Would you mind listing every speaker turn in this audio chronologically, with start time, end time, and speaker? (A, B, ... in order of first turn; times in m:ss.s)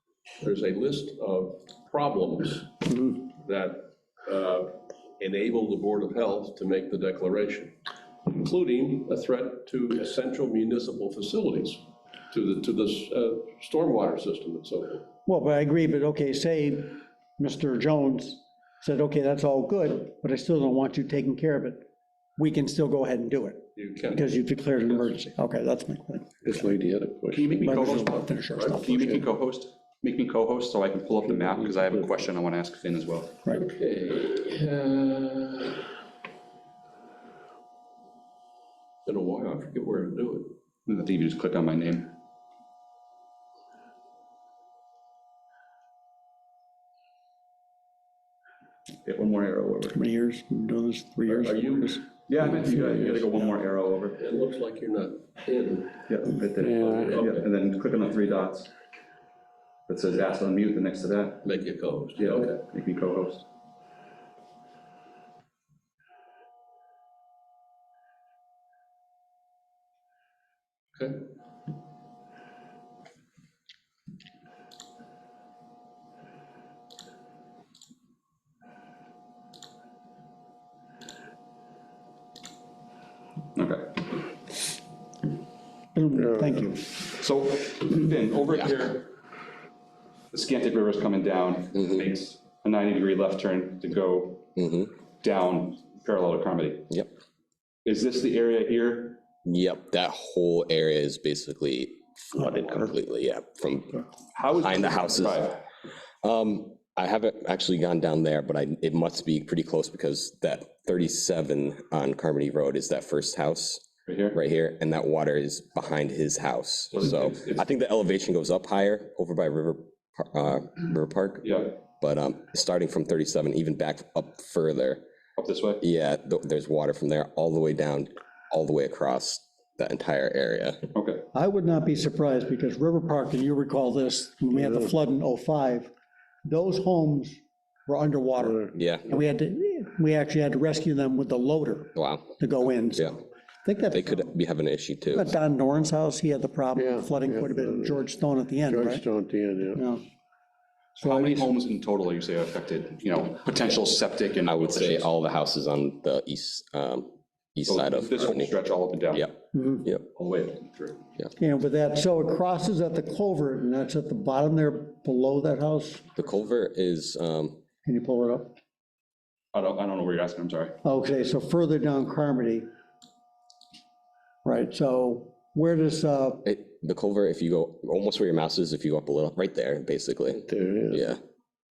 0:00.4-0:07.8 A
0:08.3-0:15.1 A
0:15.3-0:26.4 B
0:23.8-0:24.3 A
0:26.4-0:28.2 C
0:27.3-0:33.4 D
0:27.6-0:29.1 B
0:31.3-0:32.1 C
0:33.5-0:35.9 A
0:39.1-0:40.5 A
0:40.9-0:42.1 D
0:49.0-0:50.0 D
0:50.0-0:52.0 B
0:51.3-0:52.0 A
0:52.3-0:54.2 D
0:52.6-0:53.2 C
0:54.2-0:56.0 A
0:56.1-0:58.7 D
0:56.6-0:57.2 C
0:56.6-0:57.5 A
0:59.9-1:01.4 D
1:01.4-1:02.6 A
1:02.2-1:03.4 D
1:11.0-1:11.2 A
1:23.6-1:24.1 D
1:26.0-1:27.0 B
1:26.2-1:26.5 C
1:27.1-1:29.1 D
1:30.3-1:34.4 D
1:34.6-1:34.9 E
1:35.2-1:36.9 D
1:37.8-1:39.2 D
1:39.4-1:44.0 E
1:44.4-1:45.6 D
1:44.6-1:45.6 E
1:46.2-2:05.0 E
1:54.1-1:54.4 D
1:57.0-1:57.6 D
2:01.4-2:01.7 D
2:05.4-2:05.8 D
2:05.8-2:10.8 E
2:10.9-2:11.3 D
2:11.3-2:15.9 B
2:14.5-2:14.9 C
2:16.4-2:24.3 B
2:18.4-2:18.8 C
2:18.8-2:19.1 E
2:22.0-2:22.3 E
2:23.9-2:25.4 E
2:25.1-2:29.0 B
2:26.8-2:28.0 C
2:28.6-2:29.8 C
2:29.7-2:30.0 B
2:31.0-2:35.1 D
2:31.0-2:31.5 B
2:34.5-2:38.5 E
2:37.7-2:39.3 D
2:39.1-2:40.0 E
2:39.5-2:39.9 B
2:40.1-2:41.0 D
2:41.4-2:46.1 B
2:46.2-2:47.6 E
2:47.8-2:48.5 B
2:49.5-2:50.8 D
2:50.8-2:52.7 B
2:54.4-2:56.4 B
2:56.4-3:01.2 E
3:00.3-3:01.1 C